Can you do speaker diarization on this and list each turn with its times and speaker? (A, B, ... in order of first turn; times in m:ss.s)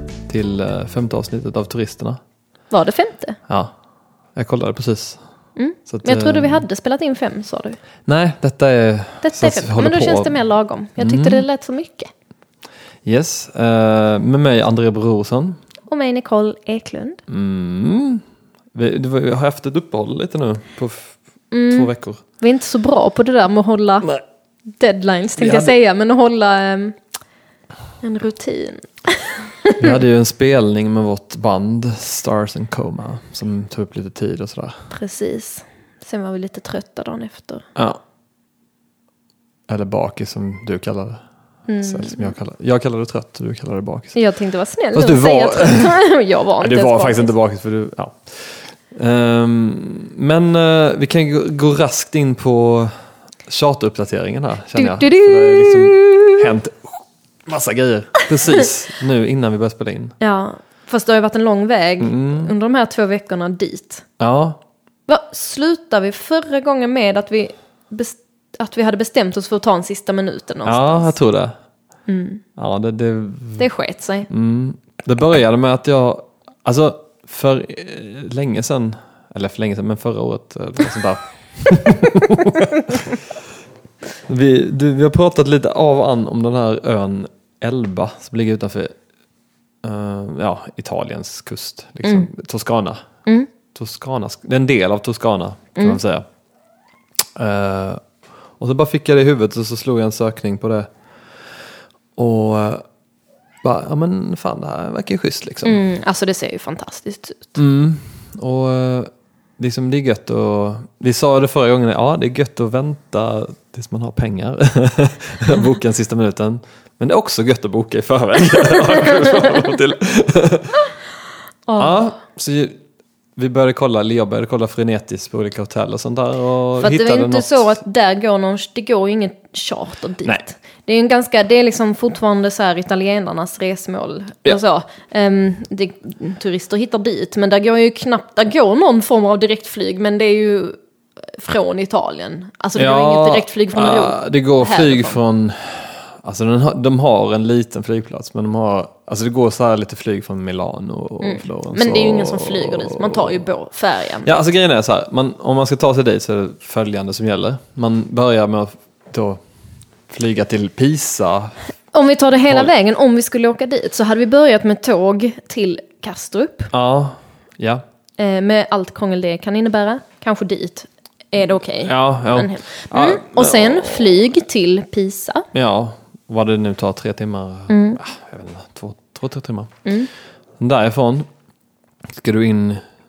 0:00.3-0:02.2 A
0:02.7-0:03.4 B
0:03.5-0:03.7 A
0:04.3-0:05.2 A
0:05.6-0:07.8 B
0:05.9-0:06.6 A
0:08.1-0:10.3 A
0:09.2-0:12.1 B
0:11.0-0:11.4 A
0:13.0-0:15.6 A
0:15.9-0:17.2 B
0:17.3-0:18.2 A
0:18.7-0:21.2 A
0:21.5-0:24.1 B
0:21.7-0:22.2 A
0:24.8-0:27.0 B
0:25.4-0:25.7 A
0:28.0-0:29.9 B
0:29.8-0:34.9 A
0:34.9-0:37.6 B
0:39.7-0:41.2 A
0:41.7-0:42.3 B
0:41.8-0:44.2 A
0:44.1-0:47.3 B
0:44.9-0:46.0 A
0:46.6-0:52.9 A
0:53.4-1:00.2 A
0:54.8-0:56.5 B
1:00.2-1:04.0 B
1:02.0-1:02.5 A
1:04.2-1:04.6 A
1:05.1-1:11.1 B
1:10.6-1:11.5 A
1:12.1-1:12.4 B
1:12.6-1:13.6 A
1:13.6-1:14.3 B
1:14.3-1:23.3 A
1:24.3-1:28.9 A
1:29.8-1:33.0 A
1:33.7-1:36.2 A
1:37.4-1:38.0 A
1:38.6-1:40.9 A
1:42.2-1:42.8 A
1:43.6-1:45.8 A
1:45.6-1:47.5 B
1:47.6-2:00.8 A
2:01.7-2:02.0 B
2:01.8-2:02.8 A
2:03.4-2:07.8 A
2:06.8-2:20.8 B
2:21.3-2:25.2 B
2:22.8-2:33.4 A
2:31.2-2:34.3 B
2:34.2-2:39.4 A
2:40.1-2:41.6 A
2:41.9-2:46.7 B
2:46.7-2:47.8 A
2:48.2-2:55.5 B
2:51.8-2:54.2 A
2:55.5-2:59.7 A
2:57.7-2:58.0 B
2:59.8-3:00.1 B
3:00.6-3:01.3 A
3:02.1-3:02.8 A